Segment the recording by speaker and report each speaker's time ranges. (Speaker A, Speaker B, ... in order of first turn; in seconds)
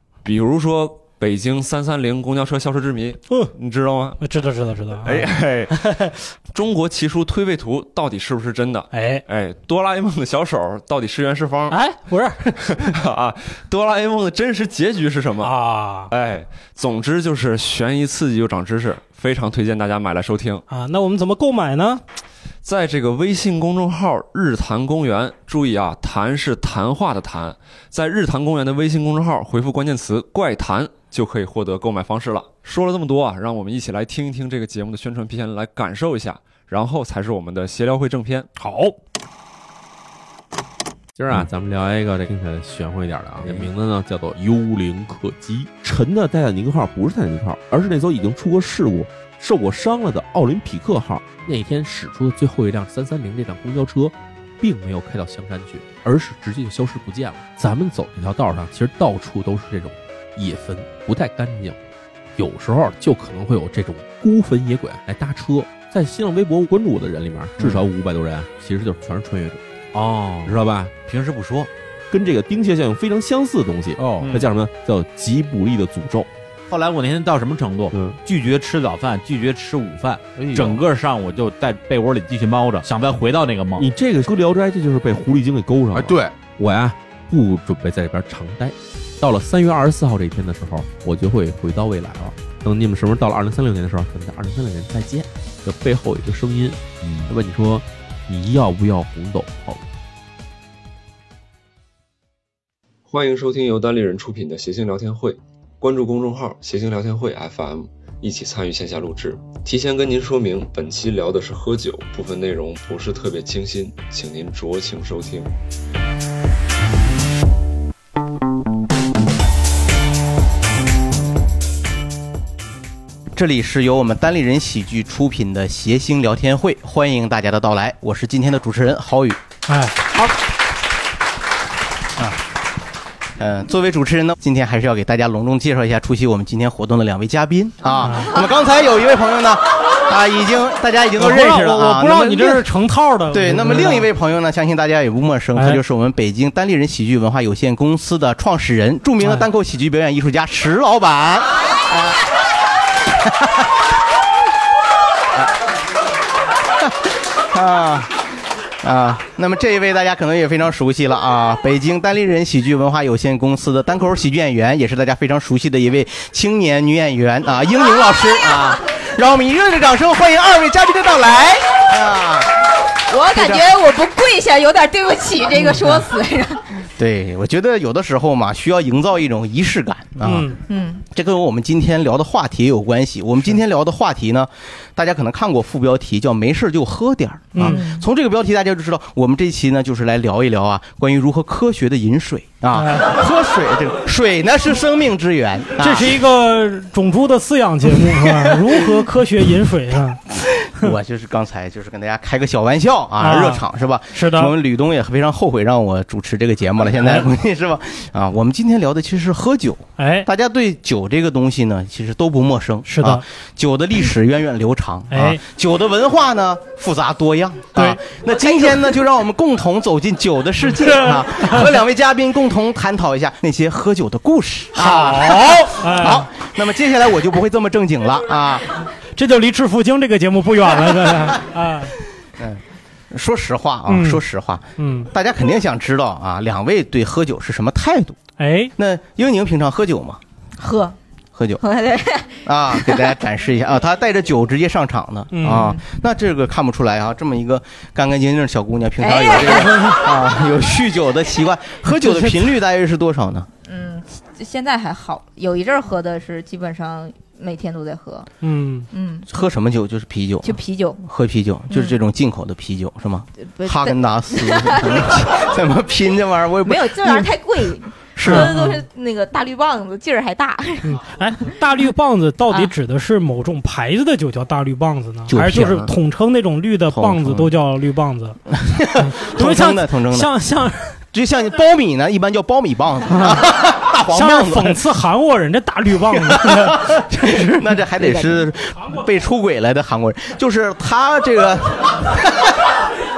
Speaker A: 0.2-4.2, 5.0-5.8, 6.5-11.8, 12.7-15.5, 16.1-20.6, 22.6-38.5, 103.1-115.5
Speaker B: 4.2-6.1, 8.9-9.2, 11.7-12.9, 15.4-16.1, 20.7-22.0, 38.6-38.9, 129.7-130.0, 138.0-138.3, 141.2-144.1, 145.6-145.8, 149.2-149.5, 175.6-175.9, 180.2-180.6, 187.5-187.8, 192.7-193.1, 195.8-200.9, 203.2-204.5, 206.9-207.3, 210.0-210.3, 212.8-213.2, 215.1-215.4, 217.7-218.7, 220.6-221.7, 224.8-226.2, 229.2-231.9, 233.9-234.2, 234.8-235.1, 238.4-238.7, 245.3-245.7, 251.9-252.4, 258.4-258.9, 268.2-268.8, 270.8-278.4, 279.0-281.0, 283.2-283.4, 284.1-287.6
Speaker C: 41.1-61.8, 62.4-76.3, 77.9-78.2, 80.5-80.8, 83.8-99.8
Speaker D: 70.0-70.5, 74.0-74.4, 76.7-83.8, 85.9-86.3
Speaker E: 123.3-129.4, 133.4-142.6, 143.3-152.2, 153.2-153.6, 157.5-158.1, 158.8-172.5, 173.3-173.7, 177.0-180.6, 181.1-196.1, 198.2-198.7, 200.7-228.7, 232.4-238.2, 238.8-240.2, 241.3-241.6, 242.4-253.5, 259.3-267.3, 268.1-268.7, 275.3-275.9, 276.9-277.5, 278.5-280.3, 281.1-284.8, 286.2-292.5
Speaker F: 173.1-176.6, 180.7-181.0, 187.6-188.1, 240.6-240.9, 241.6-243.2, 245.5-245.8, 249.0-250.0, 253.6-258.3, 258.9-259.2, 260.4-261.0, 261.7-262.0, 263.4-265.6, 266.6-271.1, 272.5-272.7, 288.0-288.3